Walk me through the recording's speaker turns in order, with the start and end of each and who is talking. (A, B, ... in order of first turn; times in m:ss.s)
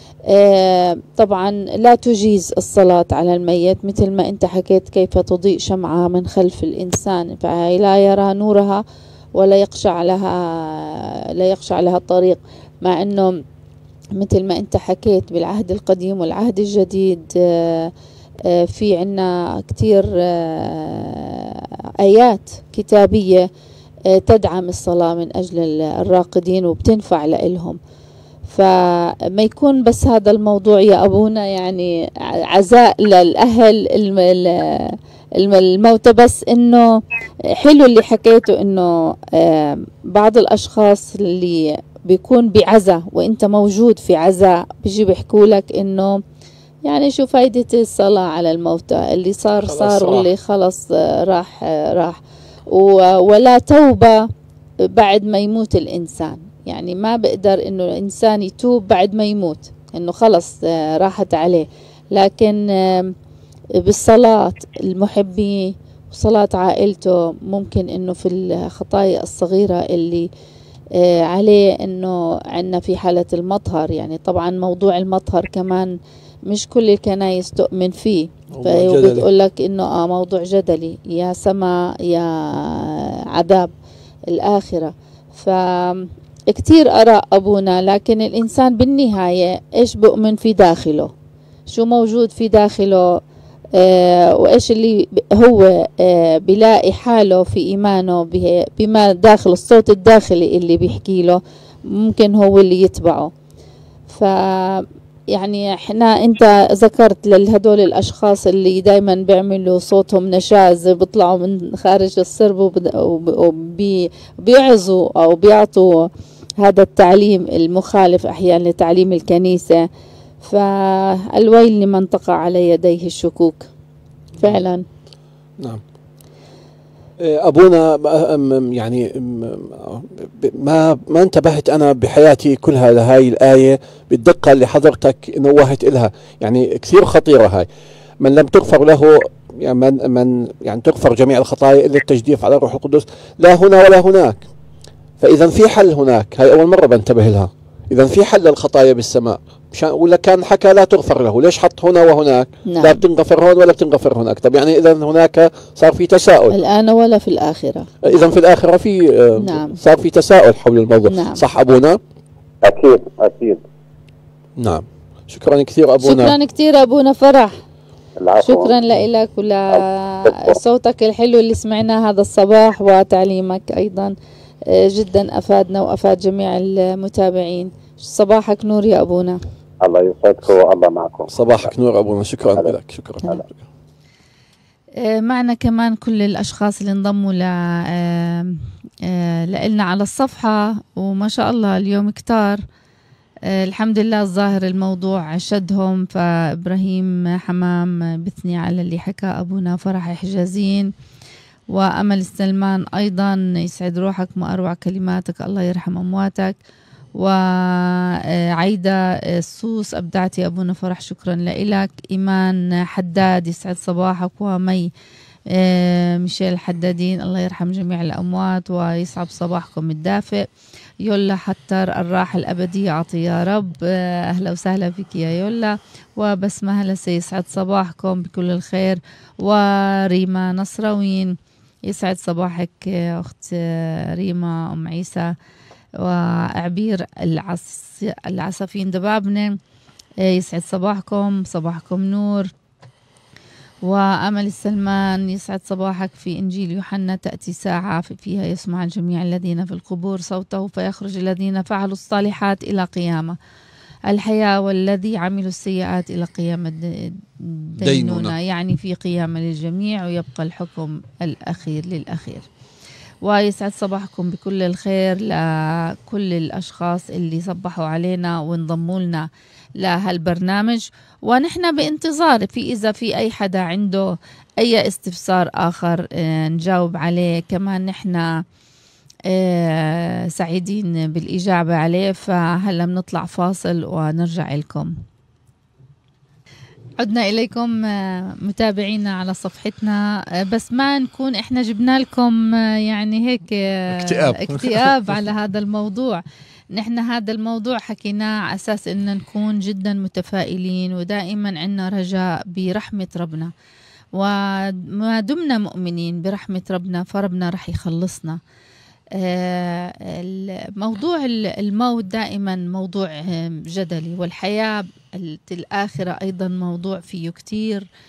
0:00.3-0:08.8 A
0:09.4-0:13.3 A
0:14.2-0:17.9 A
0:18.5-0:23.5 A
0:24.1-0:27.8 A
0:28.5-0:46.2 A
0:46.8-0:54.3 A
0:49.6-0:50.3 B
0:54.8-1:03.1 A
1:03.8-1:10.3 A
1:10.9-1:16.0 A
1:16.5-1:23.7 A
1:18.5-1:19.3 B
1:24.3-1:31.1 A
1:31.7-1:33.2 A
1:33.8-1:43.3 A
1:44.1-1:56.1 A
1:56.6-1:59.9 A
2:00.4-2:03.7 A
2:04.4-2:04.8 A
2:07.2-2:17.7 B
2:18.2-2:24.5 B
2:25.2-2:36.6 B
2:32.7-2:33.0 A
2:36.5-2:37.9 A
2:38.0-2:42.0 B
2:39.4-2:39.8 A
2:41.1-2:41.4 A
2:42.6-2:43.6 C
2:44.6-2:46.4 B
2:46.0-2:47.6 A
2:48.2-2:48.7 C
2:48.4-2:54.2 A
2:49.8-2:50.6 C
2:54.7-2:59.4 A
2:59.8-3:01.7 C
3:01.3-3:03.6 B
3:05.0-3:12.6 A
3:13.5-3:20.9 A
3:21.7-3:26.6 A
3:27.2-3:34.9 A
3:35.5-3:40.4 A
3:41.0-3:51.4 A
3:51.9-3:55.3 A
3:56.0-3:59.6 A
4:00.2-4:02.5 A
4:03.8-4:13.4 A
4:14.1-4:22.5 A
4:17.8-4:18.4 B
4:23.2-4:29.3 A
4:29.8-4:38.4 A
4:39.3-4:44.9 A
4:47.0-4:56.2 A
4:53.9-4:55.0 B
4:56.7-5:03.5 A
5:04.2-5:08.4 A
5:09.2-5:17.9 A